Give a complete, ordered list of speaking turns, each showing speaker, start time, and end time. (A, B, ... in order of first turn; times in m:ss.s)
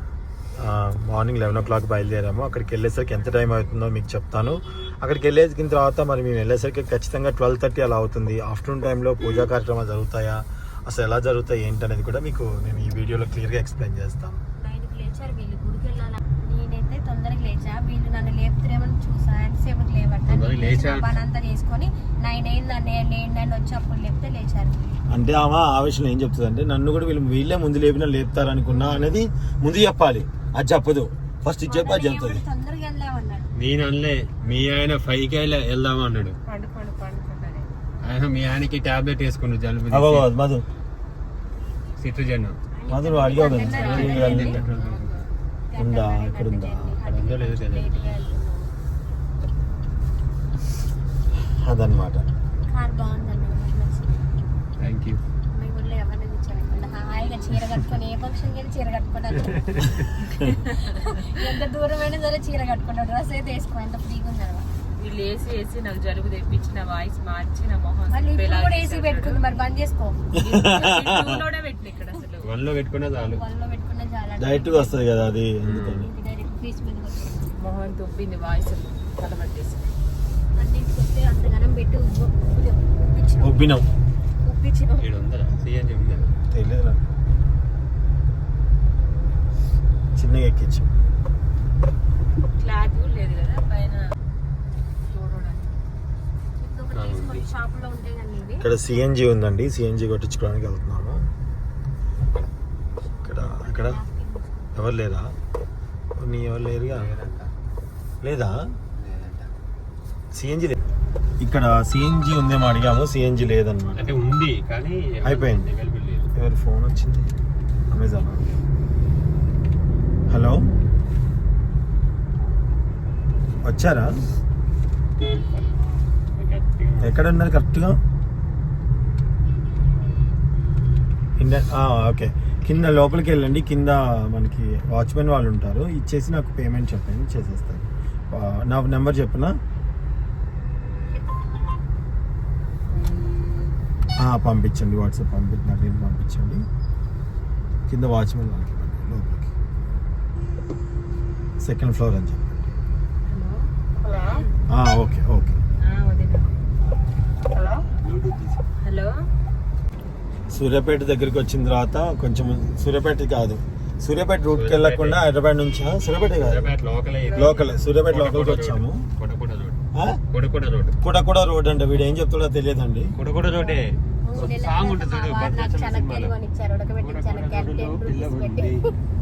0:00.6-0:14.4 A
0:14.6-0:24.9 B
0:20.3-0:21.2 C
0:25.1-0:32.4 A
0:31.7-0:33.5 B
0:33.6-0:36.4 C
0:36.4-0:37.7 D
0:38.0-0:40.3 C
0:39.9-0:40.6 A
0:42.0-0:42.6 C
0:42.7-0:44.6 B
0:42.9-0:44.7 A
0:43.6-0:45.2 C
0:43.7-0:45.2 D
0:45.7-0:48.7 B
0:45.8-0:47.0 A
0:47.0-0:48.0 C
0:51.6-0:52.3 A
0:52.7-0:54.2 B
0:54.8-0:55.2 C
0:55.5-0:59.6 B
0:59.6-1:00.1 C
1:00.7-1:04.7 B
1:05.0-1:09.4 D
1:08.1-1:10.2 B
1:10.4-1:12.5 D
1:10.5-1:11.3 A
1:12.4-1:13.4 C
1:13.2-1:15.0 B
1:14.4-1:16.1 A
1:15.7-1:16.0 C
1:16.0-1:17.5 B
1:17.6-1:19.9 D
1:20.6-1:23.7 B
1:23.4-1:23.8 A
1:24.4-1:25.1 B
1:25.0-1:26.3 C
1:26.5-1:27.0 A
1:30.2-1:30.9 A
1:32.6-1:34.1 D
1:35.1-1:35.7 D
1:36.6-1:38.6 B
1:36.9-1:37.4 C
1:38.6-1:41.2 A
1:43.0-1:44.6 B
1:43.2-1:44.0 A
1:44.8-1:45.3 A
1:46.2-1:47.1 A
1:46.9-1:47.5 C
1:48.2-1:48.6 A
1:49.0-1:49.5 C
1:50.3-1:50.8 A
1:51.4-1:54.2 A
1:54.0-1:56.3 C
1:55.2-1:55.7 A
1:56.4-1:57.3 A
1:57.9-1:58.5 A
2:00.3-2:00.6 A
2:03.6-2:04.1 A
2:06.4-2:07.3 C
2:07.0-2:08.0 A
2:11.4-2:19.5 A
2:24.2-2:26.6 A
2:27.9-2:29.5 A
2:31.6-2:32.6 A
2:33.3-2:34.5 D
2:34.7-2:35.6 A
2:35.9-2:36.5 D
2:37.5-2:37.8 D
2:38.0-2:38.6 C
2:38.8-2:39.1 D
2:40.5-2:46.7 A
2:44.5-2:45.2 C
2:46.3-2:49.8 C
2:47.2-2:47.8 D
2:47.3-2:49.0 A
2:49.9-2:50.2 A
2:50.3-2:51.0 C
2:51.0-2:53.1 A
2:53.2-2:56.3 C
2:54.2-2:58.7 B
2:57.0-2:58.8 C